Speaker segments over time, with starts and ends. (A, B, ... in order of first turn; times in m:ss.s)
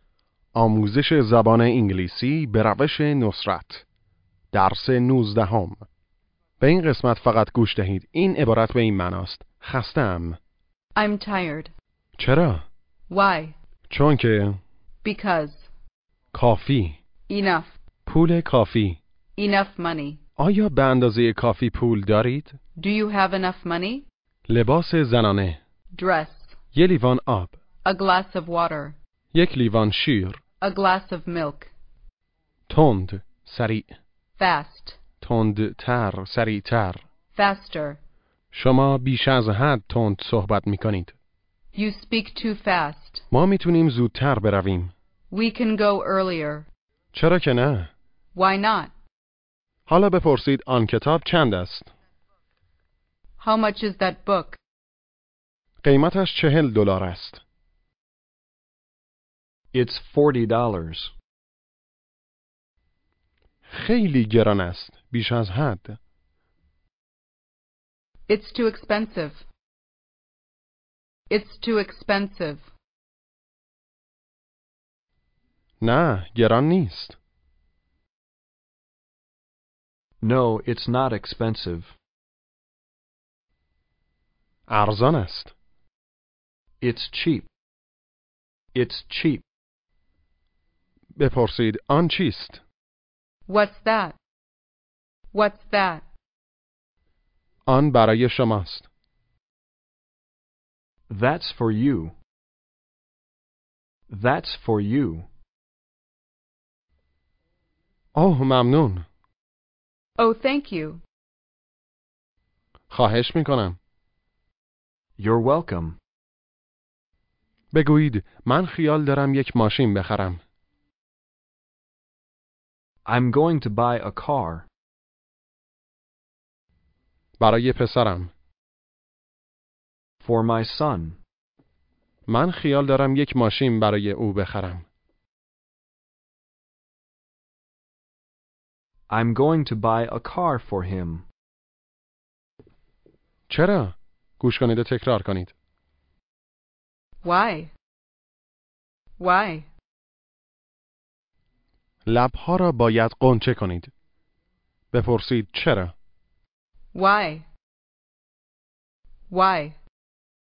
0:00.5-0:03.8 A
0:04.5-0:05.8 A
0:06.6-0:10.4 A
0:11.0-0:11.7 B
0:12.2-0:12.6 A
0:13.1-0:13.5 B
0:13.9-0:14.6 A
0:15.0-0:15.7 B
0:16.3-0:17.0 A
0:17.3-0:17.8 B
0:18.0-0:19.0 A
0:19.4-0:20.2 B
0:20.4-0:22.6 A
0:22.8-0:24.0 B
0:24.5-0:25.6 A
0:25.9-0:26.6 B
0:26.7-0:27.6 A
0:27.8-0:29.0 B
0:29.3-0:30.4 A
0:30.6-0:31.7 B
0:32.7-0:33.9 A
0:34.4-0:35.0 B
0:35.2-0:37.0 A
0:37.3-0:38.0 B
0:38.5-0:41.1 A
0:41.7-0:43.2 B
0:43.3-0:44.9 A
0:45.3-0:46.7 B
0:47.1-0:47.9 A
0:48.3-0:48.9 B
0:49.9-0:51.9 A
0:53.4-0:54.6 B
0:55.8-0:57.4 A
0:59.7-1:01.1 C
1:03.7-1:06.0 A
1:08.3-1:09.4 B
1:11.3-1:12.6 B
1:15.8-1:17.2 A
1:20.2-1:21.9 C
1:24.7-1:25.5 A
1:26.8-1:27.5 C
1:28.7-1:29.4 C
1:31.2-1:32.6 A
1:33.5-1:34.2 B
1:35.3-1:36.0 B
1:37.7-1:38.9 A
1:41.1-1:42.1 C
1:44.1-1:45.2 C
1:48.1-1:49.0 A
1:50.2-1:51.0 B
1:52.9-1:53.8 A
1:55.2-1:56.0 C
1:57.7-2:00.4 A
2:03.0-2:04.7 C
2:07.4-2:08.3 A
2:10.2-2:11.2 C
2:12.3-2:14.8 A
2:19.1-2:21.2 C
2:23.5-2:25.5 A
2:27.2-2:27.7 B
2:29.2-2:29.7 B
2:32.0-2:33.9 A
2:34.9-2:35.9 A
2:36.9-2:37.4 B
2:39.3-2:39.8 B